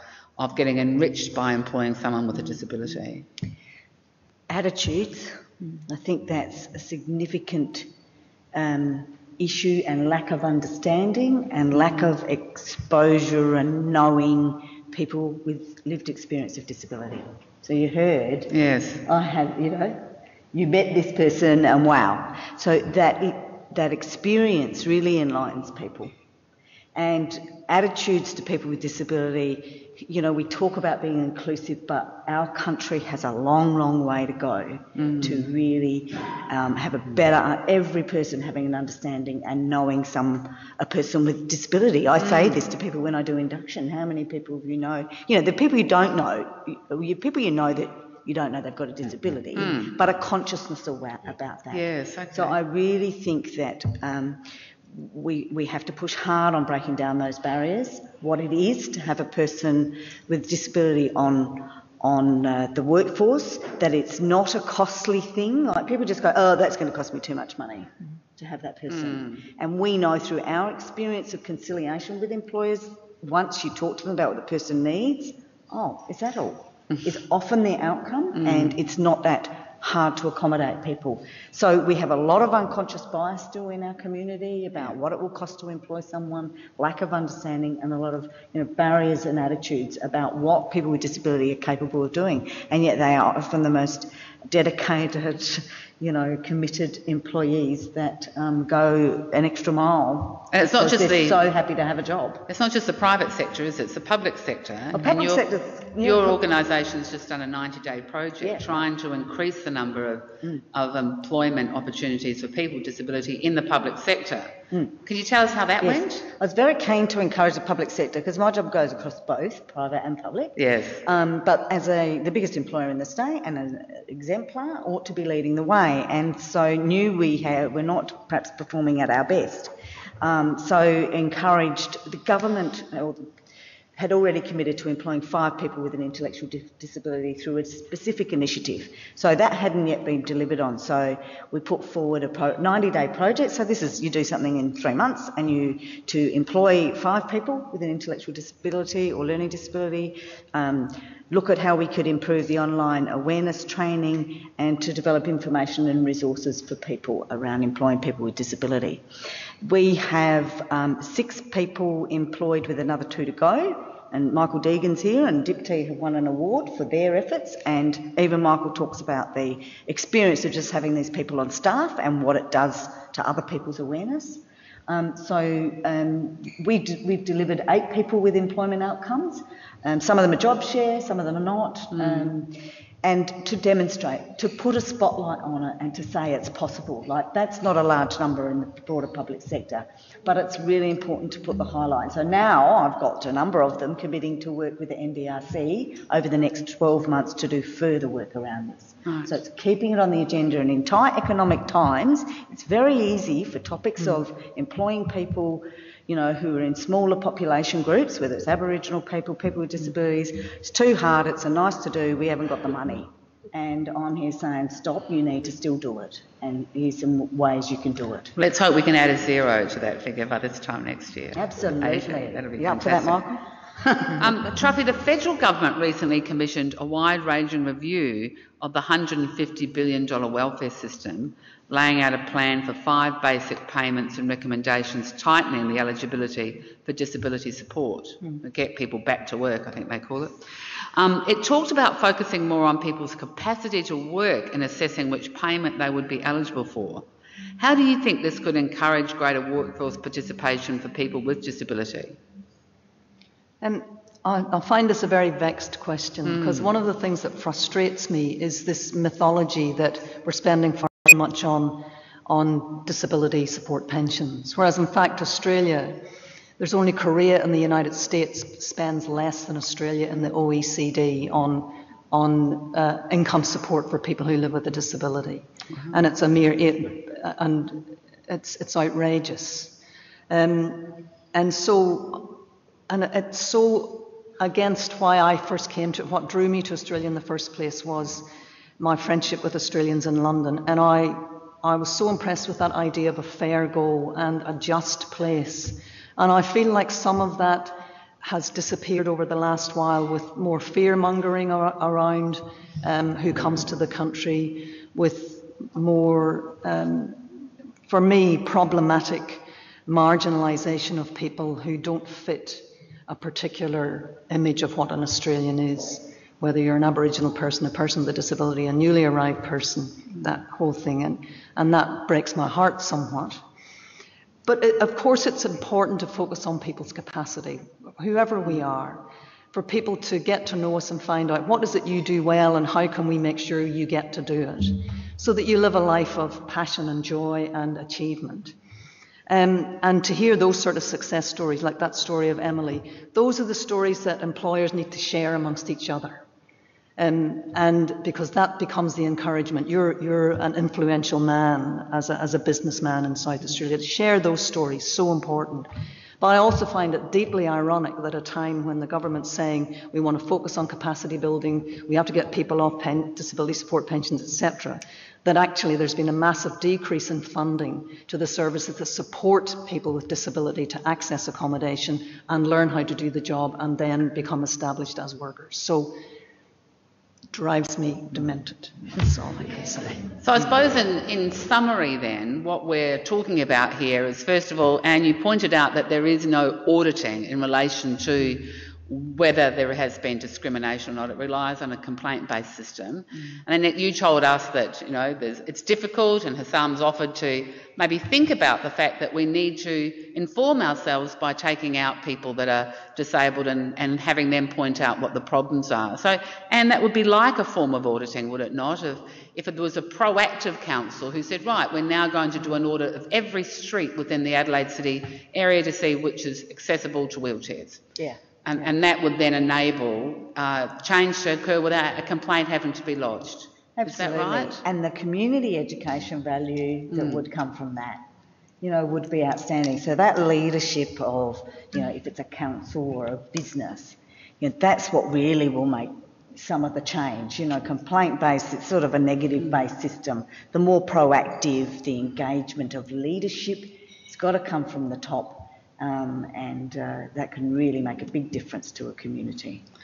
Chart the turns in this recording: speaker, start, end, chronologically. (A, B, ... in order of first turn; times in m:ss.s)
0:00.4-0:03.2 A
0:04.5-0:07.9 B
0:08.5-0:18.5 B
0:18.5-0:19.0 A
0:19.0-0:26.1 B
0:26.9-1:42.4 B
0:35.0-0:35.4 A
0:42.2-0:42.6 A
0:49.6-0:50.0 A
0:51.7-0:52.6 A
1:08.9-1:09.4 A
1:18.3-1:18.7 A
1:40.5-1:41.4 A
1:42.5-1:45.4 A
1:44.9-1:46.4 B
1:46.0-1:56.3 A
1:48.4-1:48.8 B
1:54.7-1:55.0 B
1:55.8-2:13.3 B
2:00.6-2:01.0 A
2:14.0-2:39.0 B
2:39.6-3:38.3 B
3:01.9-3:02.3 A
3:19.0-3:19.3 A
3:38.4-3:43.2 A
3:41.3-3:44.4 B
3:44.2-4:00.4 A
4:00.9-4:07.1 A
4:07.6-4:12.2 A
4:13.6-4:26.0 C
4:16.2-4:16.7 A
4:26.6-5:23.4 C
5:24.4-5:38.6 C
5:39.3-5:46.2 C
5:47.0-6:16.0 C
6:17.3-6:20.1 C
6:20.2-6:57.8 A
6:58.0-6:58.7 B
6:58.4-7:04.6 A
7:03.8-7:08.0 B
7:06.9-7:07.2 A
7:08.6-7:29.6 B